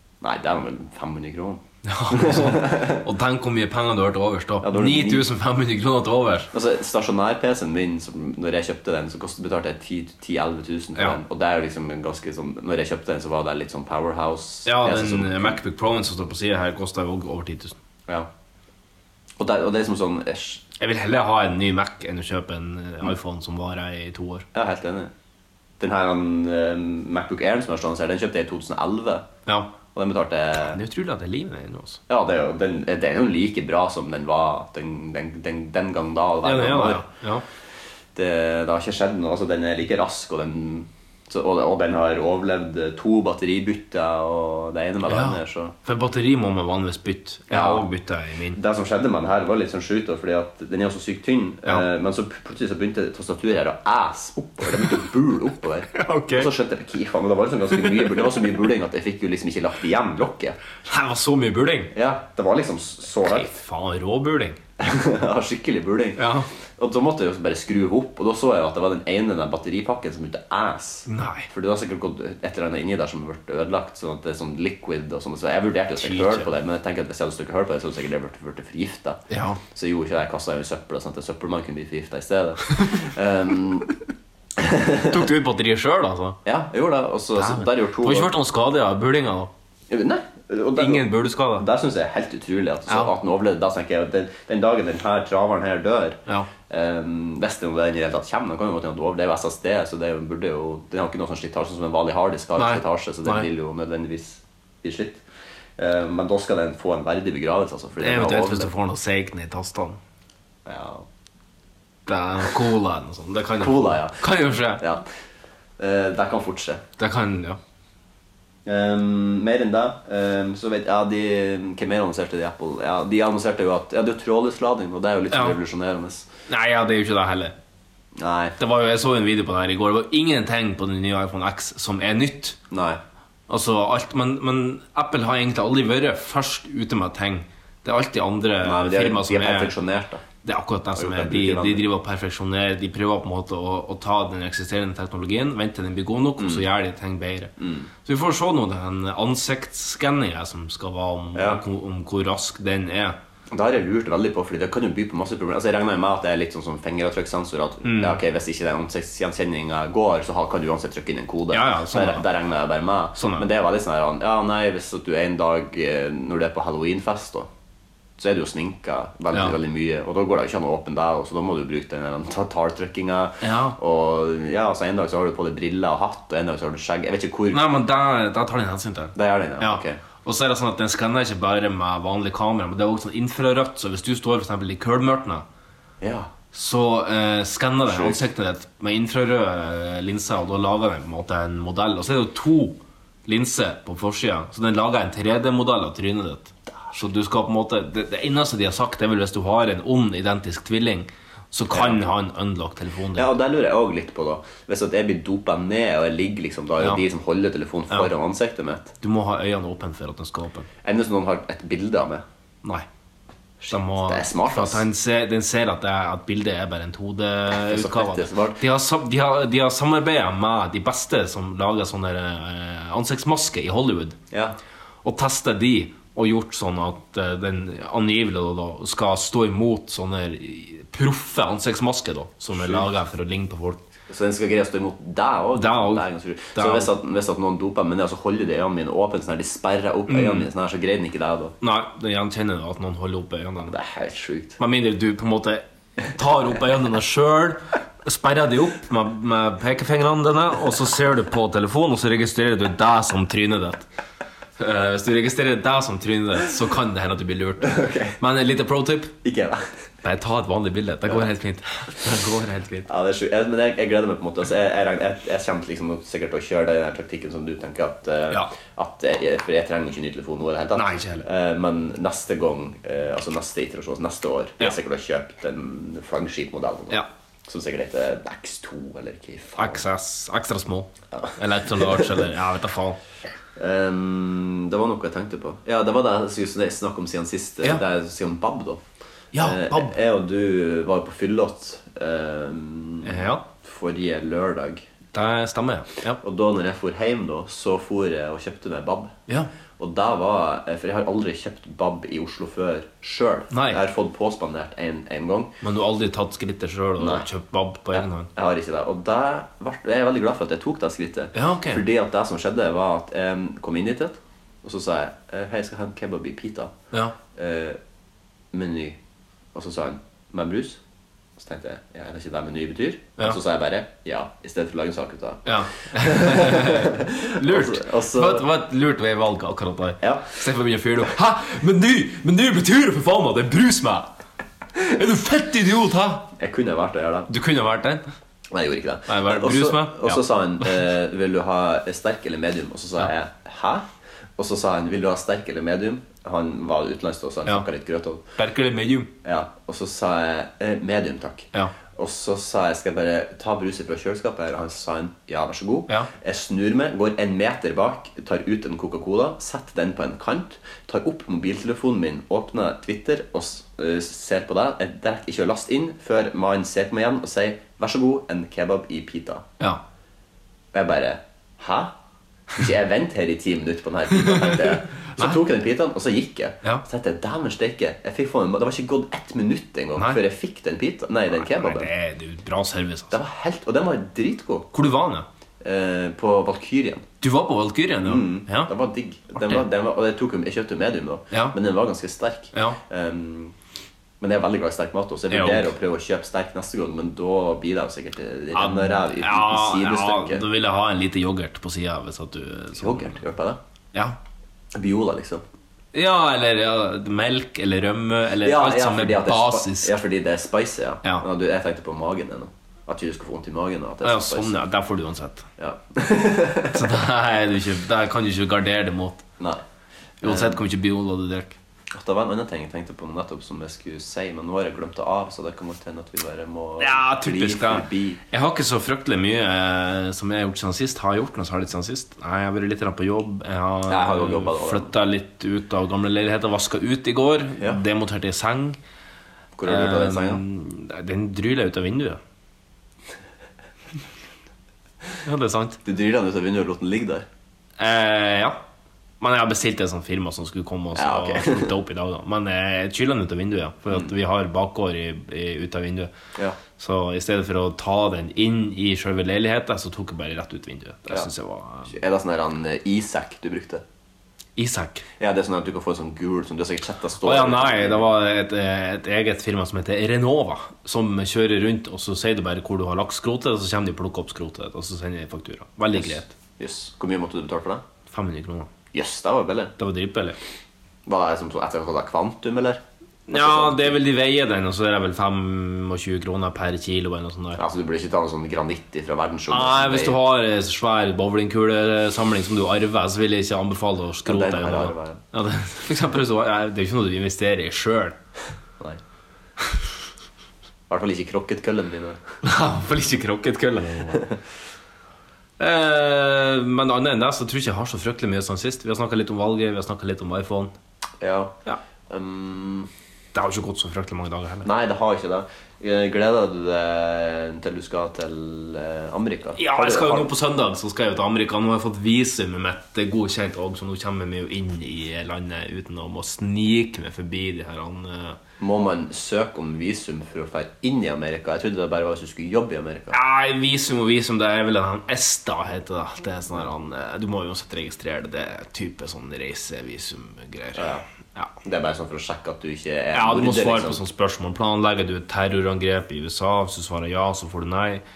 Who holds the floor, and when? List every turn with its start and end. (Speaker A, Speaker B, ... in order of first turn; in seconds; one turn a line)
Speaker A: 0.2-3.0
Speaker B: 1.8-6.5
Speaker A: 4.6-5.3
Speaker A: 6.5-15.6
Speaker B: 14.6-17.8
Speaker A: 19.4-20.6
Speaker B: 20.8-24.4
Speaker A: 24.5-25.1
Speaker A: 25.8-29.3
Speaker B: 29.4-29.7
Speaker A: 29.9-30.8
Speaker B: 30.5-32.0
Speaker A: 32.1-37.1
Speaker B: 36.4-37.4
Speaker A: 38.1-45.7
Speaker B: 45.0-48.6
Speaker A: 47.5-47.9
Speaker A: 48.5-60.6
Speaker B: 54.7-55.0
Speaker B: 55.9-56.5
Speaker B: 57.8-58.2
Speaker B: 60.8-61.9
Speaker A: 61.9-63.6
Speaker B: 63.2-64.6
Speaker A: 64.8-79.2
Speaker B: 66.2-66.5
Speaker B: 71.1-71.5
Speaker B: 76.0-76.5
Speaker B: 79.3-79.6
Speaker A: 79.7-83.9
Speaker A: 84.6-85.2
Speaker B: 85.1-86.4
Speaker A: 86.4-88.3
Speaker B: 87.3-89.5
Speaker A: 89.9-105.2
Speaker B: 90.8-91.7
Speaker B: 92.9-93.1
Speaker B: 102.6-103.5
Speaker A: 105.8-108.7
Speaker B: 108.0-110.0
Speaker A: 110.7-111.0
Speaker B: 112.0-114.8
Speaker A: 113.6-115.0
Speaker A: 115.8-116.8
Speaker B: 117.0-117.6
Speaker A: 118.7-126.3
Speaker B: 125.3-125.6
Speaker B: 126.5-127.5
Speaker A: 128.2-128.6
Speaker B: 128.6-132.6
Speaker A: 132.7-133.0
Speaker B: 133.5-139.7
Speaker A: 138.6-140.2
Speaker B: 140.4-147.5
Speaker A: 140.9-141.8
Speaker A: 146.4-146.7
Speaker A: 147.6-147.9
Speaker B: 148.0-153.2
Speaker A: 151.3-151.6
Speaker A: 153.5-167.5
Speaker B: 157.8-158.2
Speaker B: 161.5-162.2
Speaker B: 163.2-163.4
Speaker A: 168.2-177.7
Speaker B: 173.4-173.8
Speaker B: 177.5-185.4
Speaker A: 179.1-180.0
Speaker A: 186.0-186.3
Speaker B: 186.5-203.3
Speaker A: 187.9-188.2
Speaker A: 201.7-202.0
Speaker A: 203.1-208.9
Speaker B: 209.0-210.7
Speaker A: 210.8-212.2
Speaker A: 213.6-214.8
Speaker B: 213.7-224.2
Speaker A: 217.5-218.6
Speaker A: 224.3-224.6
Speaker B: 225.0-233.8
Speaker A: 232.5-232.9
Speaker A: 234.1-241.5
Speaker B: 235.5-236.9
Speaker B: 240.1-240.5
Speaker B: 241.6-243.7
Speaker A: 243.7-244.6
Speaker B: 244.6-253.8
Speaker B: 254.6-259.1
Speaker A: 257.6-258.1
Speaker A: 259.2-259.6
Speaker B: 260.0-262.9
Speaker A: 262.9-279.8
Speaker B: 270.7-271.3
Speaker B: 279.6-283.0
Speaker A: 281.1-282.1
Speaker A: 283.6-288.8
Speaker B: 289.3-289.9
Speaker A: 289.4-294.8
Speaker B: 293.0-293.4
Speaker B: 295.1-296.2
Speaker A: 296.2-299.1
Speaker A: 299.8-305.5
Speaker B: 303.5-303.8
Speaker B: 305.6-308.3
Speaker A: 307.0-307.3
Speaker A: 307.9-316.7
Speaker B: 311.3-311.8
Speaker A: 317.3-317.8
Speaker A: 318.5-319.0
Speaker A: 319.5-320.8
Speaker A: 321.4-328.4
Speaker B: 325.4-334.1
Speaker A: 330.0-330.3
Speaker B: 334.8-336.3
Speaker A: 336.4-337.3
Speaker B: 337.3-338.1
Speaker A: 338.5-343.8
Speaker B: 339.1-340.7
Speaker A: 344.4-348.2
Speaker B: 348.4-349.1
Speaker A: 349.2-369.4
Speaker A: 370.7-371.9
Speaker A: 372.5-381.9
Speaker B: 374.1-375.4
Speaker B: 381.3-383.2
Speaker A: 383.1-384.7
Speaker B: 384.7-385.3
Speaker A: 385.6-387.0
Speaker B: 387.2-388.7
Speaker A: 388.0-393.5
Speaker B: 389.4-389.6
Speaker B: 391.3-391.6
Speaker B: 392.5-392.8
Speaker A: 394.2-400.4
Speaker B: 395.3-395.7
Speaker B: 398.5-403.2
Speaker A: 402.8-403.6
Speaker A: 404.7-405.4
Speaker B: 405.9-409.9
Speaker A: 408.4-414.5
Speaker B: 414.0-415.5
Speaker A: 415.6-416.9
Speaker B: 416.7-419.2
Speaker A: 420.2-420.6
Speaker B: 420.2-421.6
Speaker A: 421.9-428.2
Speaker B: 426.8-438.8
Speaker A: 433.9-434.9
Speaker A: 439.6-440.4
Speaker B: 439.6-442.2
Speaker B: 445.2-445.8
Speaker A: 445.8-447.3
Speaker B: 447.8-448.6
Speaker B: 449.2-456.1
Speaker A: 450.9-451.7
Speaker B: 456.8-461.9
Speaker A: 461.9-463.8
Speaker B: 464.6-465.0
Speaker A: 465.2-468.1
Speaker B: 467.2-476.3
Speaker A: 475.9-477.8
Speaker B: 478.1-478.7
Speaker A: 478.9-479.7
Speaker B: 479.8-480.4
Speaker A: 481.1-484.0
Speaker B: 483.3-487.6
Speaker A: 487.6-490.2
Speaker B: 489.5-498.2
Speaker A: 494.2-495.2
Speaker A: 500.9-502.2
Speaker B: 502.4-504.2
Speaker B: 505.6-510.7
Speaker A: 511.2-511.5
Speaker A: 512.1-512.9
Speaker B: 513.3-514.7
Speaker A: 514.6-520.3
Speaker B: 519.6-528.4
Speaker A: 528.6-533.2
Speaker B: 533.1-541.5
Speaker A: 540.8-541.0
Speaker A: 541.6-544.0
Speaker B: 543.1-548.0